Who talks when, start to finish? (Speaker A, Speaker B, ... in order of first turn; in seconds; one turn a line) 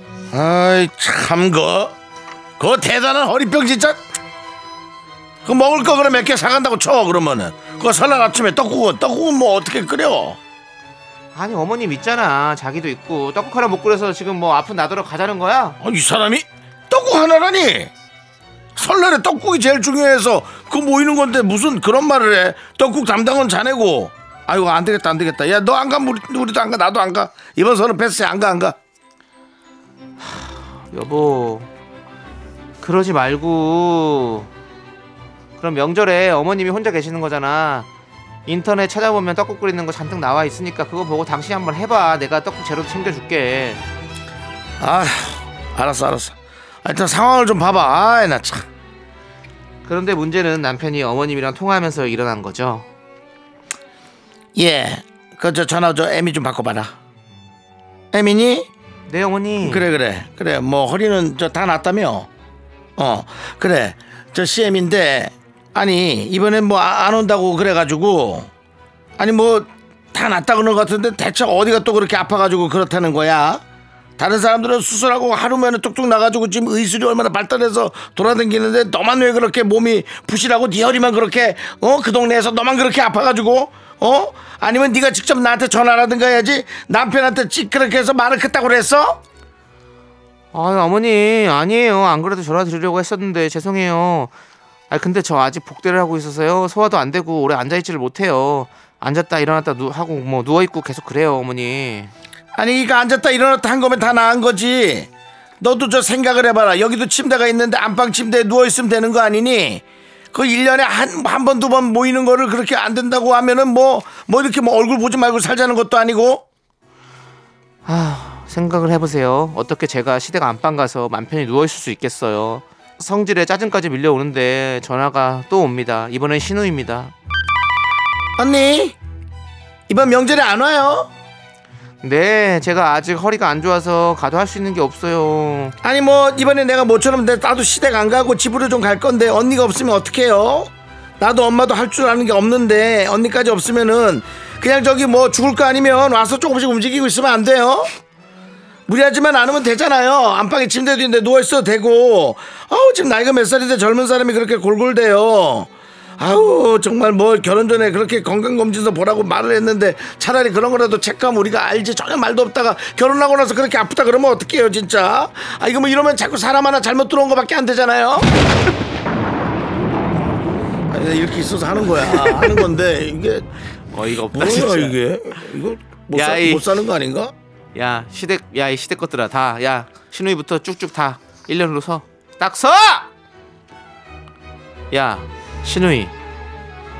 Speaker A: 0.3-1.9
Speaker A: 2.6-4.0
Speaker A: 5.4-10.4
Speaker B: 11.3-15.8
Speaker A: 15.8-17.9
Speaker A: 18.8-28.8
Speaker B: 30.2-31.7
Speaker B: 32.8-34.5
Speaker B: 35.6-37.9
Speaker B: 38.5-43.8
Speaker A: 44.8-48.6
Speaker B: 49.8-52.9
Speaker A: 54.5-56.9
Speaker A: 58.1-58.7
Speaker B: 59.1-59.9
Speaker A: 59.6-62.3
Speaker A: 63.0-68.5
Speaker A: 69.2-73.6
Speaker A: 74.2-89.2
Speaker B: 90.5-94.3
Speaker B: 94.9-102.1
Speaker A: 102.5-105.1
Speaker A: 105.6-116.4
Speaker B: 117.8-127.1
Speaker A: 128.4-129.0
Speaker A: 129.9-131.1
Speaker B: 132.0-135.8
Speaker A: 135.8-147.9
Speaker A: 148.9-168.3
Speaker A: 170.9-173.5
Speaker B: 171.9-172.6
Speaker B: 173.9-175.0
Speaker A: 174.3-177.3
Speaker B: 176.1-176.7
Speaker B: 177.7-183.1
Speaker B: 184.9-186.1